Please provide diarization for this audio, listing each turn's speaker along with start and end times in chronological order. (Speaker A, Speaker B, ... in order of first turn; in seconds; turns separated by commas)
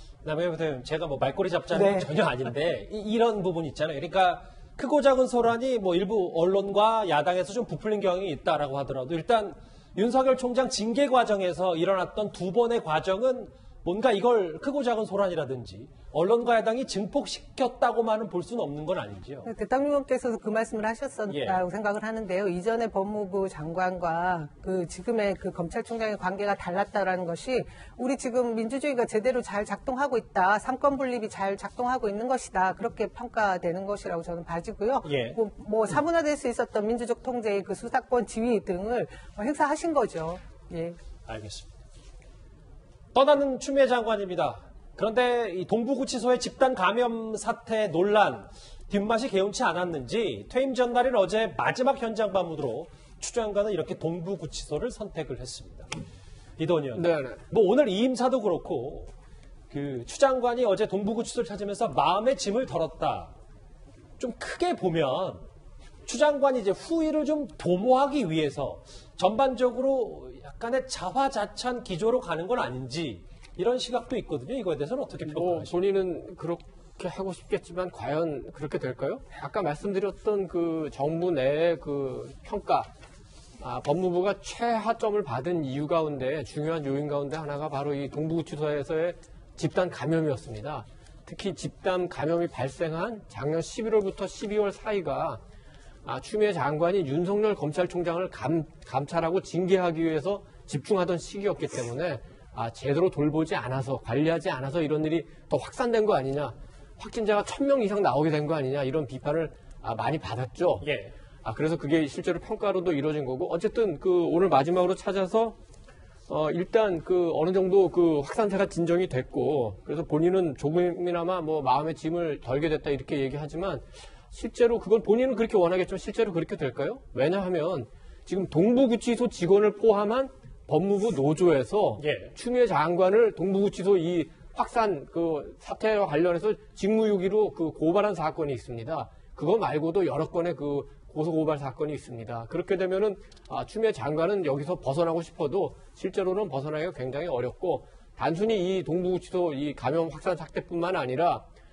Speaker A: 0.2-19.5, Speaker B: 1.7-2.1, Speaker B: 19.4-41.0, Speaker A: 21.3-21.6, Speaker A: 35.0-35.4, Speaker A: 41.3-41.7, Speaker A: 43.1-55.9, Speaker A: 56.6-59.1, Speaker C: 56.9-57.4, Speaker A: 59.7-63.3, Speaker A: 64.2-65.5, Speaker A: 66.0-75.8, Speaker C: 75.2-82.9, Speaker C: 83.6-95.4, Speaker C: 96.0-110.9, Speaker A: 110.8-111.1, Speaker C: 111.4-115.5, Speaker C: 116.3-151.4, Speaker A: 132.0-132.3